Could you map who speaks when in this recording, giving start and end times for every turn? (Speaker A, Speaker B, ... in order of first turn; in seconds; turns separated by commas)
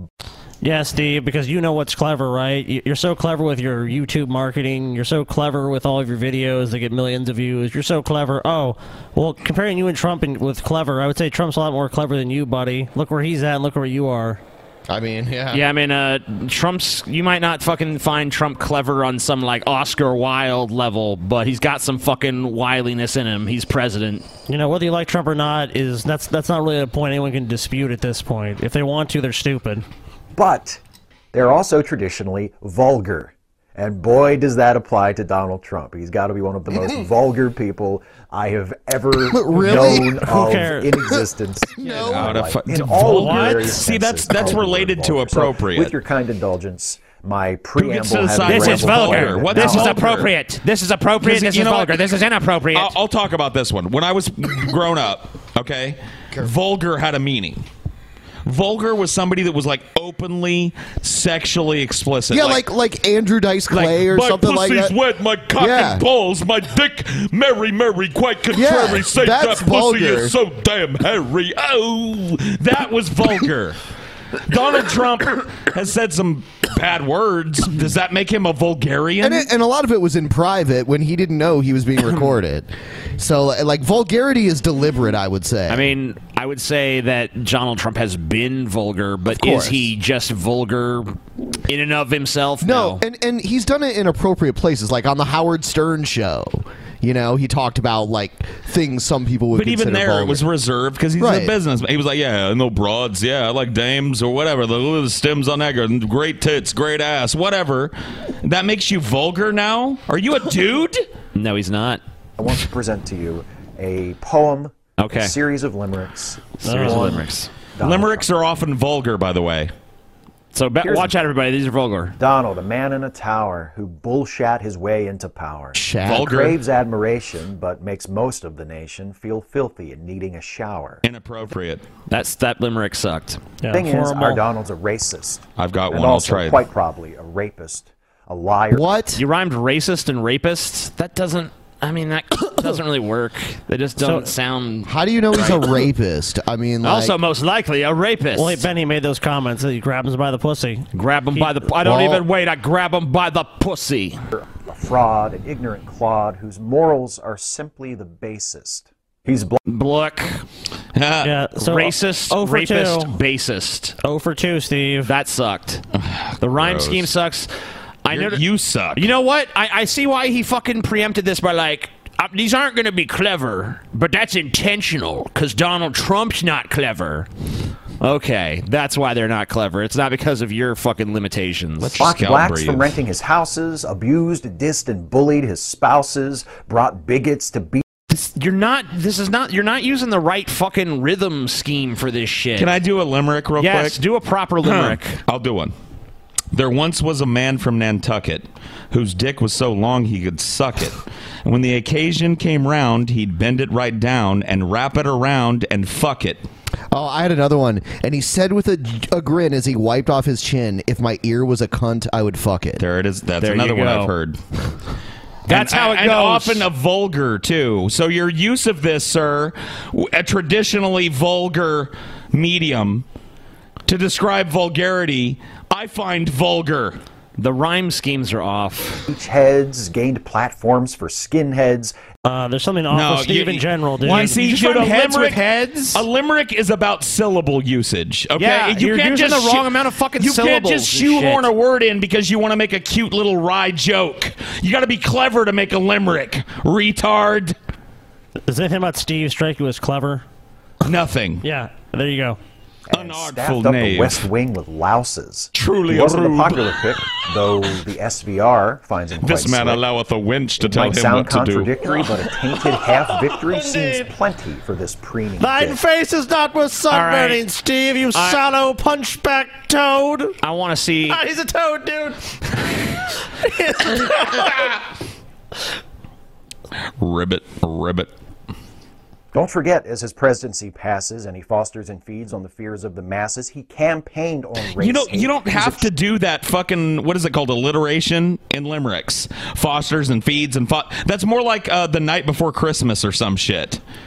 Speaker A: 0.6-14.4, Speaker B: 14.9-15.6, Speaker C: 15.5-24.3, Speaker A: 24.5-29.9, Speaker D: 30.4-30.8, Speaker D: 31.3-50.0, Speaker B: 39.3-40.2, Speaker A: 39.7-40.9, Speaker B: 41.8-42.5, Speaker E: 41.9-46.0, Speaker A: 43.1-43.9, Speaker E: 47.8-50.3, Speaker C: 48.5-53.0, Speaker E: 51.2-52.0, Speaker E: 52.7-57.6, Speaker E: 58.5-62.6, Speaker B: 62.3-64.9, Speaker E: 63.7-73.8, Speaker B: 65.6-66.0, Speaker B: 68.5-70.3, Speaker E: 74.5-79.5, Speaker B: 79.2-85.9, Speaker C: 85.7-91.2, Speaker B: 89.3-89.9, Speaker C: 91.7-93.0, Speaker B: 92.6-100.5, Speaker E: 99.5-111.0, Speaker B: 101.2-101.5, Speaker C: 111.3-112.0, Speaker D: 112.4-118.3, Speaker C: 115.0-115.3, Speaker C: 116.6-117.5, Speaker A: 116.6-117.2, Speaker E: 117.8-119.7, Speaker C: 120.5-122.2, Speaker D: 120.8-121.1, Speaker D: 122.2-131.0, Speaker B: 125.7-126.4, Speaker E: 126.0-126.5, Speaker E: 131.0-131.9, Speaker C: 132.1-133.4, Speaker A: 133.6-134.4, Speaker D: 133.7-139.0, Speaker E: 135.6-136.6, Speaker B: 138.7-139.2, Speaker C: 139.2-145.9, Speaker A: 144.0-144.3, Speaker B: 144.9-147.2, Speaker C: 146.8-148.6, Speaker A: 148.4-151.5, Speaker C: 150.9-154.2, Speaker B: 151.8-152.2, Speaker D: 154.3-159.6, Speaker C: 159.7-160.4, Speaker E: 160.9-161.3, Speaker A: 161.2-163.2, Speaker C: 161.6-163.9, Speaker A: 164.0-165.1, Speaker C: 165.1-165.8, Speaker E: 165.9-167.1, Speaker C: 166.4-167.5, Speaker C: 168.1-168.4, Speaker E: 168.1-169.1, Speaker C: 168.9-177.3, Speaker C: 178.0-182.1, Speaker E: 181.8-182.9, Speaker D: 182.0-187.8, Speaker C: 188.1-192.7, Speaker E: 192.6-194.0, Speaker C: 193.6-195.2, Speaker E: 194.6-195.7, Speaker E: 196.5-206.4, Speaker B: 206.9-212.8, Speaker E: 212.8-214.4, Speaker C: 213.4-214.1, Speaker C: 215.5-216.7, Speaker E: 215.5-223.1, Speaker E: 223.9-227.0, Speaker C: 227.4-229.1, Speaker D: 229.1-231.9, Speaker A: 232.2-234.4, Speaker E: 232.9-247.6, Speaker C: 234.0-236.0, Speaker C: 238.4-241.5, Speaker A: 248.5-250.2, Speaker E: 250.8-251.4, Speaker A: 251.4-252.4, Speaker D: 252.9-259.8, Speaker E: 252.9-254.2, Speaker E: 255.5-256.8, Speaker E: 259.2-261.7, Speaker D: 260.6-265.8, Speaker A: 263.3-264.1, Speaker A: 265.4-270.4, Speaker C: 266.9-267.4, Speaker C: 268.1-268.4, Speaker C: 270.4-271.2, Speaker A: 271.1-272.2, Speaker A: 273.4-274.7, Speaker E: 277.0-278.1, Speaker D: 279.3-285.9, Speaker E: 284.7-293.8